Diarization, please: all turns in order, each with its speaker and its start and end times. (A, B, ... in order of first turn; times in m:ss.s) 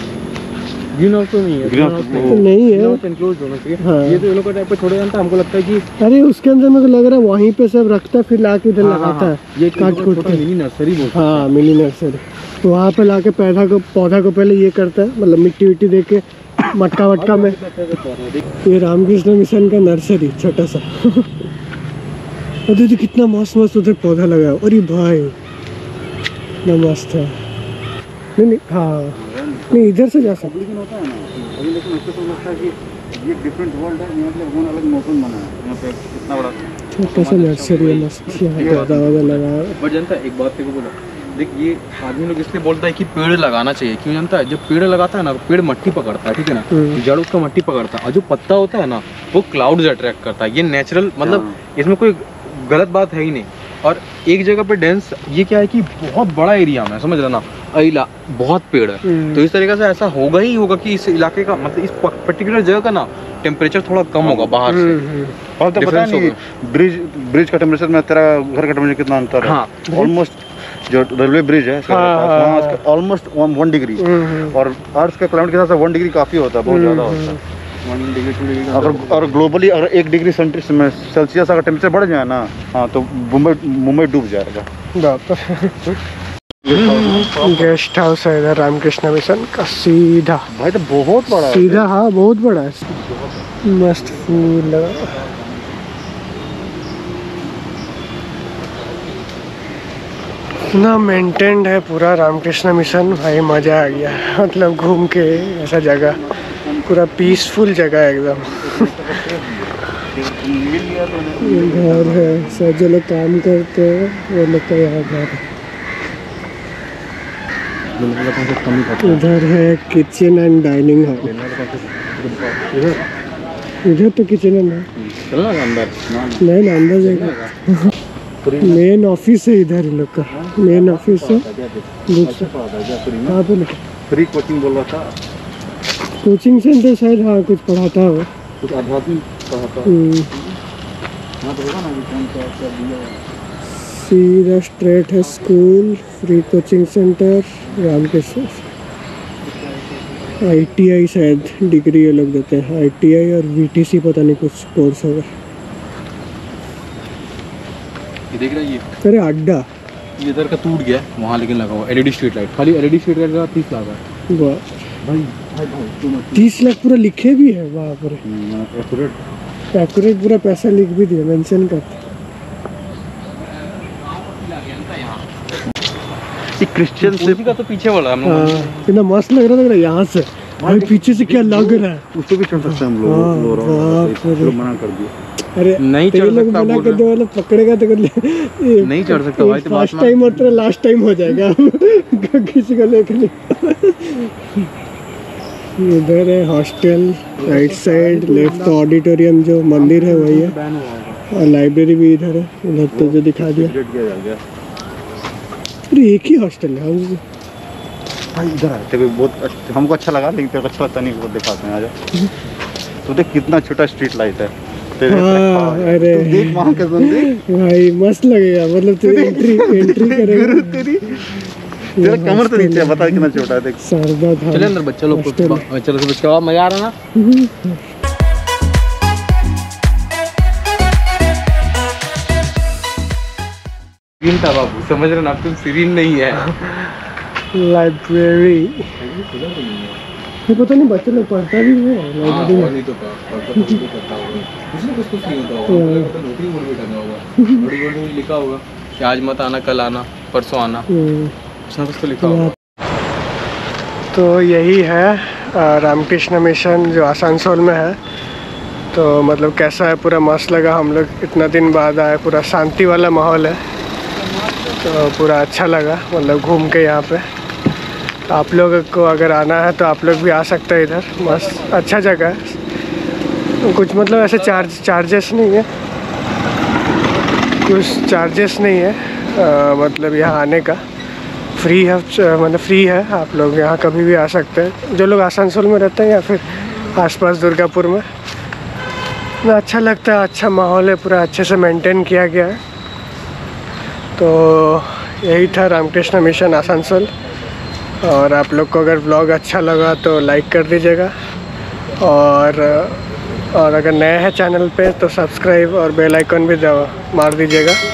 0:00.9-0:05.8 A
0:01.6-0:02.4 B
0:02.3-0:03.0 C
0:03.8-0:04.3 C
0:06.0-0:10.4 C
0:08.8-0:11.5 A
0:11.1-0:17.6 C
0:17.0-0:18.6 A
0:18.6-0:21.5 C
0:22.7-0:25.3 C
0:26.6-0:27.3 C
0:28.4-0:29.2 C
0:29.1-0:36.6 B
0:29.7-0:30.6 C
0:36.9-0:39.8 C
0:37.0-1:05.0 A
0:38.4-0:39.0 B
0:46.7-0:47.0 C
0:51.2-0:51.6 B
0:59.0-0:59.4 C
1:04.2-1:04.6 B
1:04.6-1:05.3 C
1:05.6-1:17.4 B
1:05.7-1:06.4 A
1:09.4-1:09.7 A
1:11.9-1:12.8 C
1:14.0-1:14.6 C
1:16.6-1:17.4 C
1:17.8-1:19.4 A
1:18.7-1:24.7 B
1:25.0-1:26.0 C
1:26.6-1:27.7 B
1:26.7-1:30.5 C
1:30.5-1:31.9 B
1:31.3-1:32.9 C
1:32.9-1:35.8 B
1:33.6-1:35.2 C
1:38.7-1:39.2 B
1:40.7-1:46.2 C
1:43.0-1:44.2 B
1:45.8-1:47.5 B
1:46.8-1:49.0 C
1:48.4-1:52.8 B
1:51.4-1:55.4 C
1:58.0-1:59.3 A
1:59.0-2:01.3 C
2:01.2-2:03.0 A
2:03.8-2:04.9 C
2:05.2-2:06.0 A
2:06.1-2:06.5 B
2:06.4-2:07.9 C
2:07.0-2:07.5 A
2:08.4-2:08.8 B
2:08.6-2:11.5 C
2:10.2-2:13.4 B
2:12.1-2:12.5 C
2:13.3-2:13.8 C
2:14.1-2:15.1 B
2:16.2-2:18.3 C
2:18.6-2:20.6 B
2:19.8-2:20.3 C
2:21.4-2:23.2 B
2:23.9-2:28.6 C
2:30.4-2:35.3 C
2:38.3-2:38.8 A
2:39.0-2:39.6 C
2:40.2-2:44.0 A
2:44.3-2:44.6 C
2:45.0-2:46.7 B
2:46.3-2:48.2 C
2:48.2-2:49.2 B
2:49.7-2:52.0 C
2:53.3-2:55.3 A
2:56.5-2:57.5 B
2:57.0-2:58.9 A
2:58.2-3:04.6 C
3:00.6-3:05.1 B
3:05.6-3:14.6 C
3:05.8-3:07.0 A
3:08.8-3:10.4 A
3:15.8-3:20.6 C
3:17.4-3:18.8 A
3:19.7-3:21.2 A
3:21.3-3:23.7 C
3:22.9-3:24.4 B
3:25.9-3:27.2 C
3:28.3-3:31.9 B
3:33.0-3:37.3 B
3:35.1-3:40.9 C
3:39.0-3:43.8 B
3:42.0-3:45.6 C
3:44.5-3:46.9 A
3:47.2-3:47.8 C
3:54.2-3:56.8 A
3:57.5-3:58.9 C
3:59.0-4:00.0 A
4:00.5-4:02.8 C
4:02.2-4:10.9 A
4:03.5-4:03.8 C
4:05.7-4:06.1 C
4:07.4-4:07.7 C
4:10.9-4:11.3 C
4:11.7-4:12.6 A
4:12.2-4:12.5 C
4:14.1-4:18.0 C
4:18.9-4:23.6 C
4:24.7-4:27.2 C
4:28.3-4:32.6 C
4:33.6-4:35.6 C
4:37.6-4:40.8 C
4:41.6-4:48.0 C
4:49.4-4:52.6 C
4:54.2-4:57.1 C
4:58.0-5:01.1 C
5:02.0-5:07.8 C